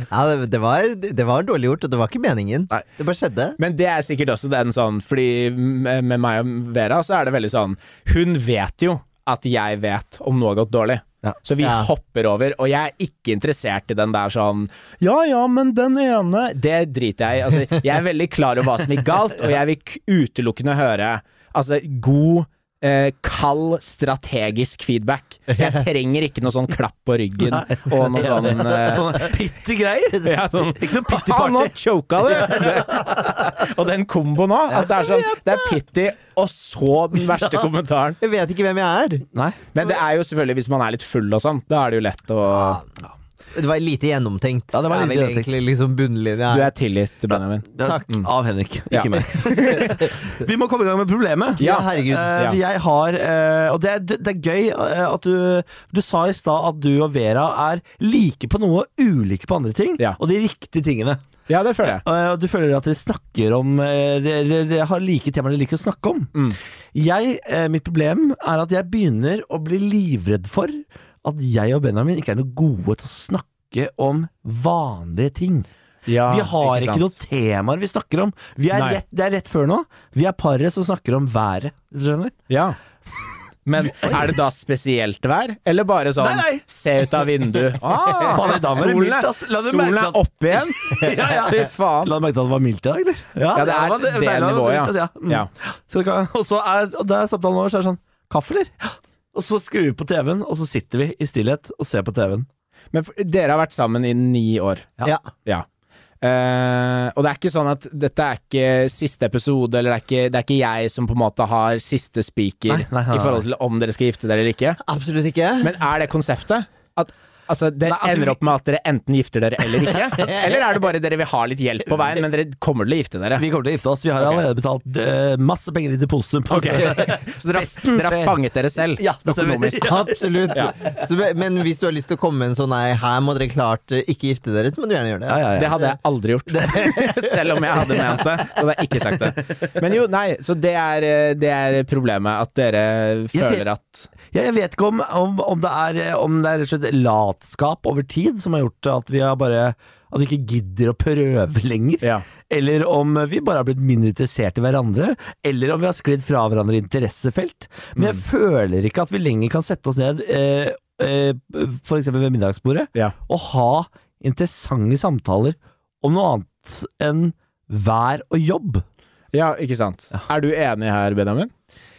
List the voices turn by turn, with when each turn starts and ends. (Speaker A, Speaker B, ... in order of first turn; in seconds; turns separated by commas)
Speaker A: 0.1-3.6, Speaker B: 3.6-29.3, Speaker A: 11.6-11.9, Speaker A: 25.5-25.9, Speaker C: 27.4-33.2, Speaker B: 30.2-38.2, Speaker A: 34.7-35.7, Speaker A: 38.2-39.2, Speaker C: 39.3-39.7, Speaker B: 39.7-42.8, Speaker A: 42.5-42.8, Speaker A: 43.5-46.7, Speaker C: 44.7-45.5, Speaker B: 46.5-48.3, Speaker C: 47.7-61.2, Speaker B: 48.9-50.0, Speaker B: 51.6-51.9, Speaker A: 51.6-52.4, Speaker B: 61.5-62.0, Speaker C: 61.8-66.3, Speaker C: 66.9-75.7, Speaker B: 76.1-77.2, Speaker C: 76.2-82.3, Speaker B: 78.7-79.0, Speaker B: 82.5-82.8, Speaker B: 83.7-92.1, Speaker C: 83.8-84.3, Speaker C: 86.2-86.6, Speaker C: 88.2-102.5, Speaker B: 93.5-95.5, Speaker B: 102.9-105.7, Speaker B: 106.2-114.8, Speaker C: 112.7-113.4, Speaker A: 114.8-115.7, Speaker B: 115.6-123.4, Speaker C: 123.4-128.4, Speaker B: 126.5-129.9, Speaker C: 129.0-130.5, Speaker A: 129.8-135.5, Speaker C: 135.3-135.9, Speaker B: 135.5-144.1, Speaker C: 136.5-138.2, Speaker C: 139.0-139.3, Speaker C: 143.3-143.6, Speaker C: 144.3-168.8, Speaker B: 157.9-158.2, Speaker B: 169.3-171.5